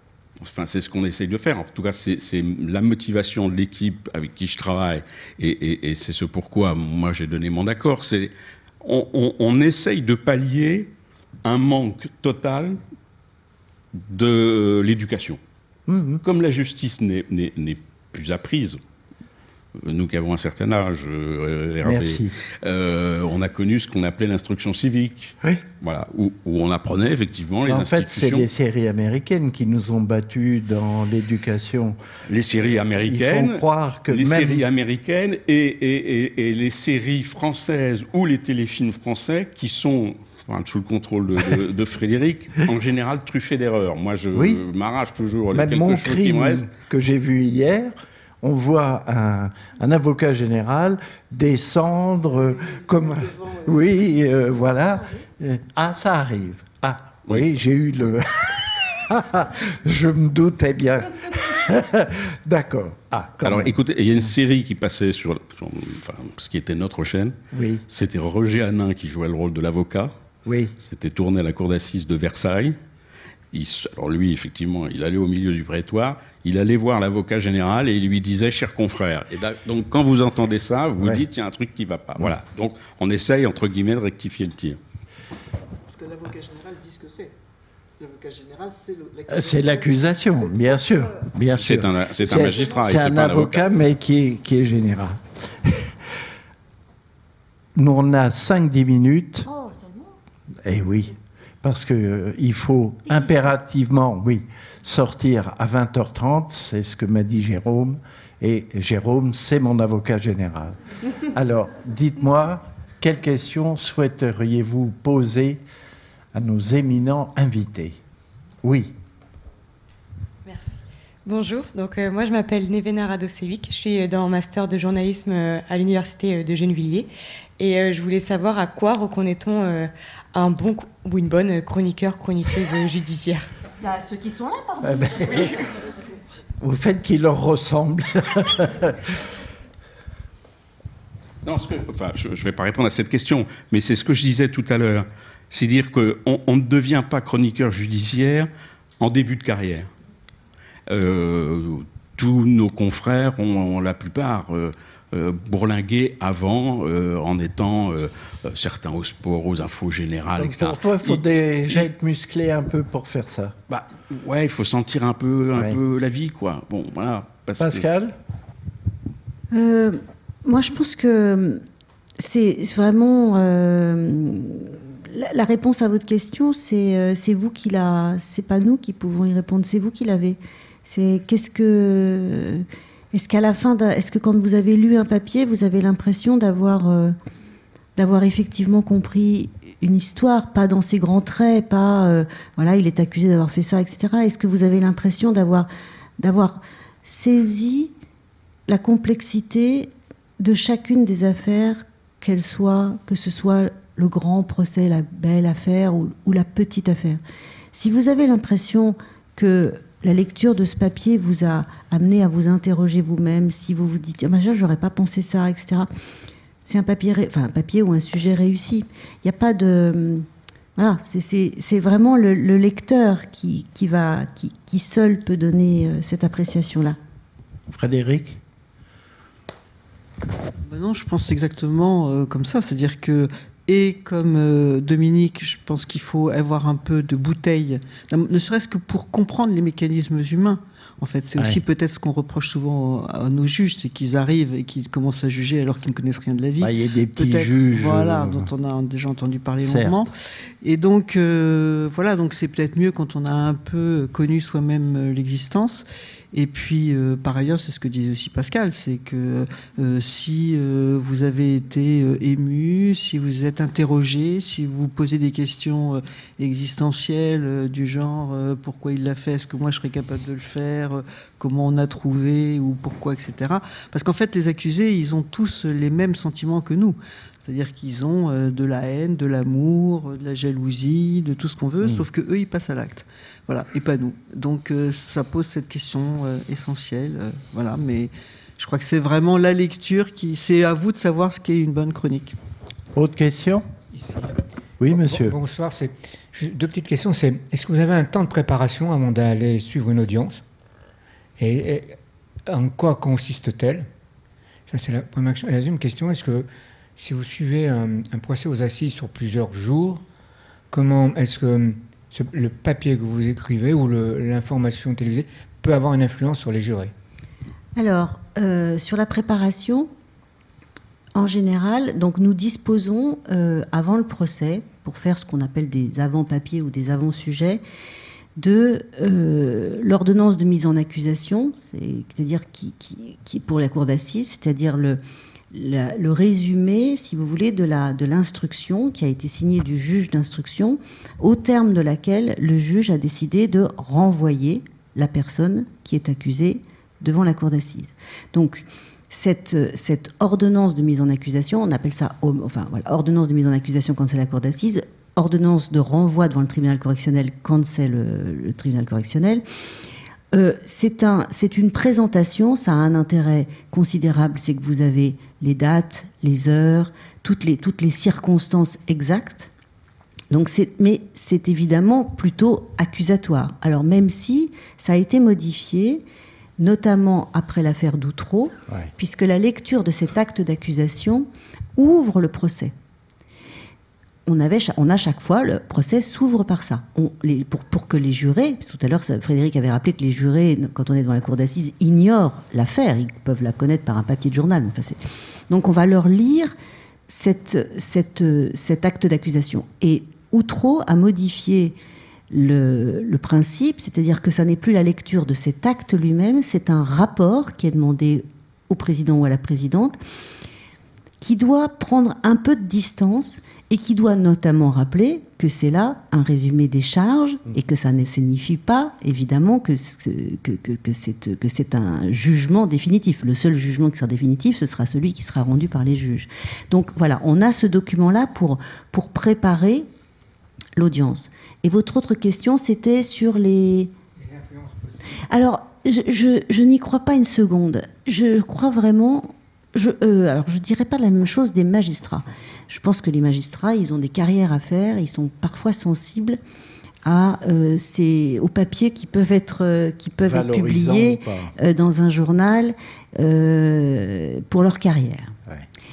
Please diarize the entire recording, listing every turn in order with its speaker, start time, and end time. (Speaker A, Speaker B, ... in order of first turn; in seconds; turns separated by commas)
Speaker A: 0.4-8.3, Speaker A: 8.8-10.9, Speaker A: 11.4-12.8, Speaker A: 14.1-15.4, Speaker B: 15.9-16.2, Speaker A: 16.2-18.8, Speaker A: 19.8-28.5, Speaker B: 21.8-22.3, Speaker B: 27.6-34.6, Speaker A: 32.3-46.7, Speaker B: 44.3-44.6, Speaker B: 45.5-63.7, Speaker A: 63.4-67.4, Speaker B: 67.5-67.8, Speaker A: 67.9-70.2, Speaker B: 70.4-70.7, Speaker A: 70.8-72.8, Speaker A: 73.5-84.8, Speaker B: 81.0-81.2, Speaker C: 85.9-87.3, Speaker C: 88.0-91.1, Speaker B: 89.3-96.0, Speaker A: 91.6-93.7, Speaker B: 97.7-99.5, Speaker B: 100.6-115.6, Speaker B: 116.3-118.0, Speaker B: 118.6-118.9, Speaker D: 120.5-134.7, Speaker B: 134.8-135.7, Speaker B: 136.6-139.1, Speaker A: 141.4-148.5, Speaker A: 149.0-149.9, Speaker A: 150.9-161.9, Speaker B: 160.3-163.6, Speaker A: 163.7-167.8, Speaker B: 167.6-168.2, Speaker E: 169.5-171.6, Speaker E: 172.2-187.1, Speaker E: 188.0-195.7, Speaker E: 196.2-197.9, Speaker E: 198.7-207.2, Speaker E: 207.7-215.9, Speaker E: 216.6-227.0, Speaker B: 227.7-228.4, Speaker C: 230.6-292.4, Speaker B: 241.3-241.6, Speaker B: 246.6-248.5, Speaker B: 249.6-250.1, Speaker B: 292.9-293.6, Speaker F: 294.0-294.3, Speaker B: 294.8-295.4, Speaker F: 294.9-300.4, Speaker F: 301.4-303.9, Speaker F: 304.7-310.0, Speaker F: 310.7-316.9, Speaker E: 317.8-319.9, Speaker E: 321.1-327.6, Speaker E: 328.4-335.0, Speaker E: 335.5-359.4, Speaker E: 360.3-369.5, Speaker E: 370.3-376.0, Speaker E: 376.6-382.7, Speaker E: 384.2-396.5, Speaker E: 397.1-401.8, Speaker E: 402.3-410.0, Speaker E: 411.2-429.9, Speaker E: 430.8-433.9, Speaker F: 434.2-435.0, Speaker E: 435.2-446.4, Speaker E: 447.0-455.3, Speaker B: 450.2-451.5